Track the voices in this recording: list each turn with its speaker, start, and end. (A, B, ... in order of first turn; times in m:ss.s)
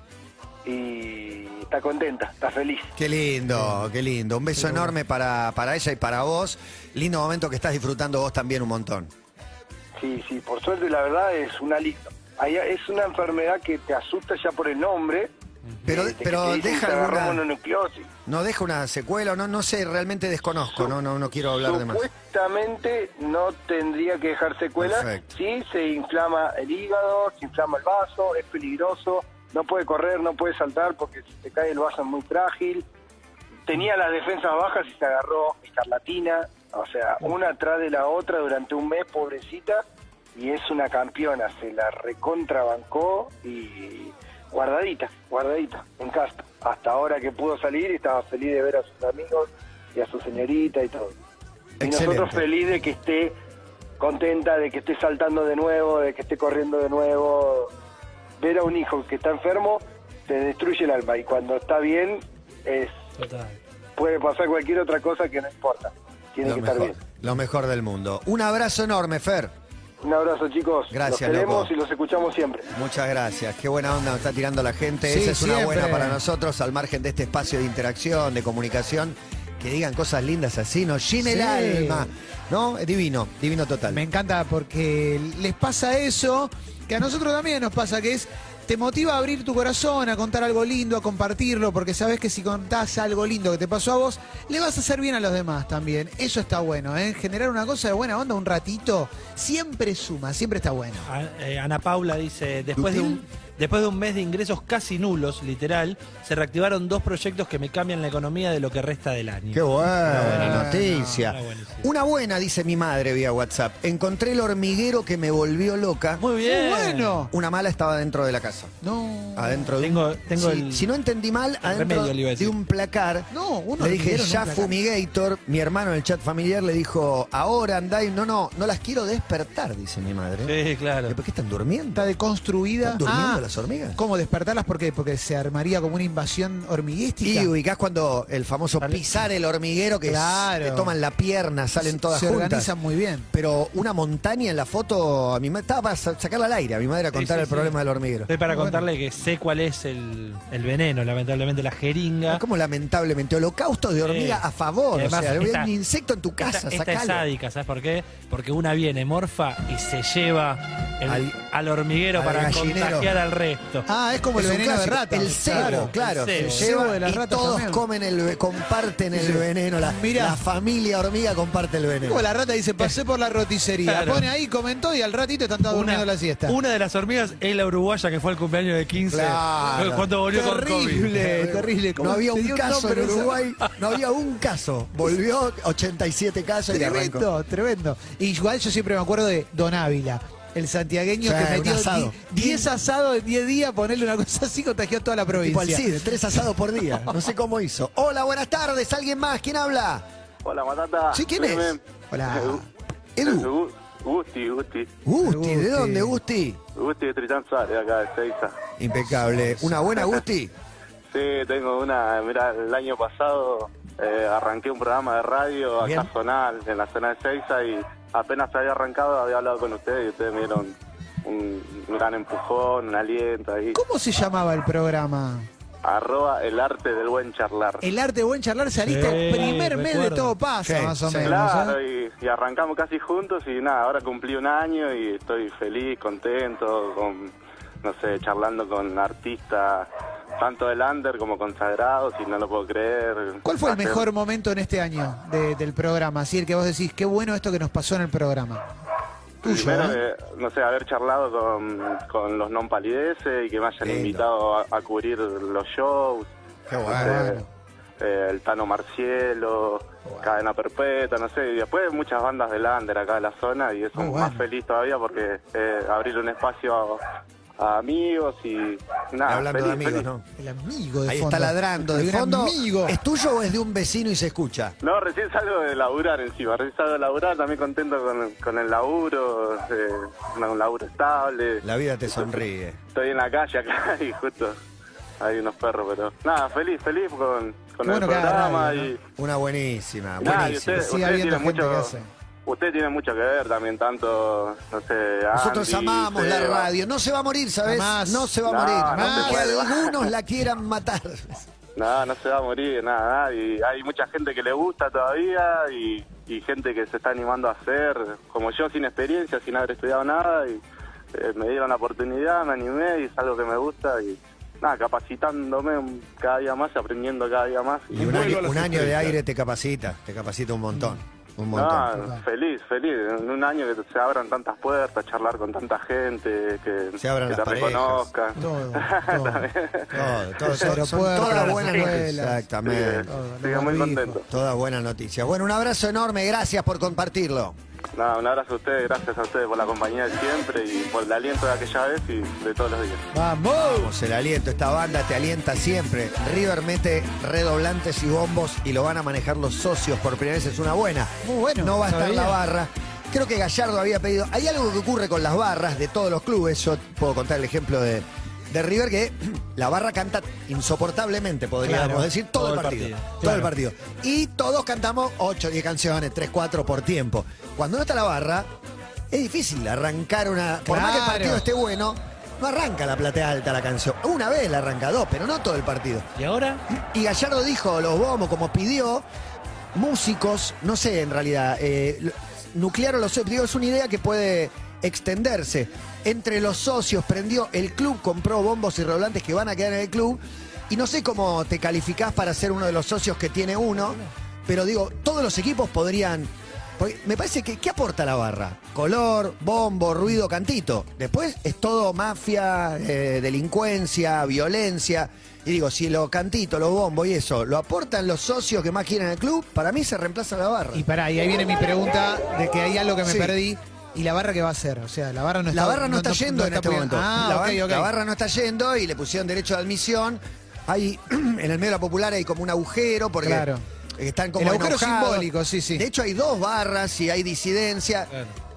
0:00.6-0:03.0 A
0:03.0-0:09.1 B
0:10.0-0:15.3 A
0:15.9-0:17.4 B
0:15.9-0:18.1 A
0:18.3-0:22.1 B
0:21.5-0:32.8 A
0:24.8-0:25.3 B
0:33.7-0:39.8 A
0:40.4-0:51.2 A
0:51.8-0:52.4 B
0:51.8-0:53.4 A
0:54.0-0:57.7 A
0:58.4-1:03.0 A
1:03.2-1:03.6 C
1:04.0-1:07.0 A
1:06.4-1:09.5 B
1:10.0-1:12.7 A
1:10.9-1:11.7 B
1:12.7-1:24.0 B
1:15.1-1:16.2 D
1:21.2-1:22.1 D
1:23.9-1:41.1 D
1:41.1-1:50.7 C
1:42.8-1:43.2 B
1:49.5-1:56.2 B
1:50.1-1:51.2 D
1:51.3-1:51.9 C
1:56.2-1:57.2 C
1:56.4-1:57.3 D
1:57.3-1:58.7 B
1:58.8-1:59.7 D
1:59.4-2:10.5 B
1:59.8-2:00.9 C
2:01.6-2:02.5 C
2:03.3-2:04.7 D
2:10.4-2:11.2 C
2:11.1-2:12.1 B
2:12.0-2:13.4 D
2:12.8-2:14.0 B
2:14.0-2:17.5 D
2:17.2-2:22.7 B
2:20.0-2:20.9 D
2:21.8-2:23.3 D
2:23.3-2:28.3 B
2:27.1-2:27.8 C
2:28.3-2:32.4 C
2:28.5-2:28.8 D
2:32.3-2:37.3 B
2:34.0-2:34.4 C
2:34.9-2:35.7 C
2:36.4-2:43.9 C
2:41.1-2:41.4 B
2:42.1-2:43.2 B
2:43.9-2:47.8 D
2:44.4-2:52.3 B
2:45.3-2:46.7 C
2:49.1-2:50.4 D
2:52.0-2:56.6 D
2:53.8-2:54.3 C
2:55.7-3:01.4 C
2:59.1-3:03.4 D
2:59.7-3:00.1 B
3:01.3-3:07.3 B
3:06.7-3:16.0 D
3:11.2-3:12.7 B
3:15.4-3:20.0 B
3:20.4-3:22.6 E
3:21.1-3:21.8 B
3:22.1-3:22.7 D
3:23.2-3:23.5 B
3:23.2-3:24.9 E
3:25.1-3:26.6 B
3:25.2-3:26.2 D
3:26.8-3:28.5 E
3:28.8-3:30.5 B
3:31.1-3:43.8 E
3:35.8-3:36.1 B
3:43.7-3:45.5 D
3:45.8-3:47.8 E
3:47.8-3:51.8 D
3:48.8-3:50.4 C
3:50.6-3:51.4 B
3:51.2-4:04.0 E
4:03.4-4:08.6 D
4:09.4-4:10.0 D
4:09.4-4:16.3 E
4:13.8-4:14.3 B
4:16.7-4:17.3 B
4:16.9-4:17.4 E
4:16.9-4:17.5 D
4:18.0-4:27.0 E
4:20.0-4:20.3 D
4:23.9-4:24.4 D
4:27.6-4:30.1 E
4:29.3-4:30.3 B
4:30.4-4:33.0 D
4:31.1-4:34.8 B
4:34.8-4:41.6 E
4:41.6-4:42.8 B
4:42.9-4:44.6 E
4:45.2-4:49.0 E
4:47.8-4:48.9 D
4:49.2-4:51.0 B
4:50.2-4:51.9 E
4:50.7-4:52.1 D
4:52.5-4:56.7 E
4:55.3-5:01.5 B
4:57.6-4:58.4 D
4:58.4-5:00.1 E
4:58.9-4:59.5 D
5:01.8-5:10.6 E
5:11.1-5:18.5 E
5:17.9-5:19.1 D
5:18.0-5:21.9 B
5:21.5-5:29.9 E
5:27.0-5:28.1 B
5:28.4-5:32.5 D
5:29.9-5:33.0 B
5:31.5-5:32.0 E
5:32.6-5:34.2 E
5:33.1-5:34.2 D
5:34.3-5:37.6 B
5:38.0-5:43.0 E
5:43.1-5:43.9 D
5:43.6-6:08.5 B
5:51.2-5:52.4 D
6:01.6-6:02.1 D
6:02.4-6:03.4 C
6:03.2-6:03.5 D
6:09.1-6:16.1 B
6:10.7-6:11.4 D
6:16.2-6:16.6 C
6:16.7-6:19.0 B
6:19.7-6:50.8 B
6:50.8-6:57.9 D
6:53.0-6:53.4 B
6:55.5-7:08.1 B
7:03.2-7:03.6 D
7:04.4-7:05.8 D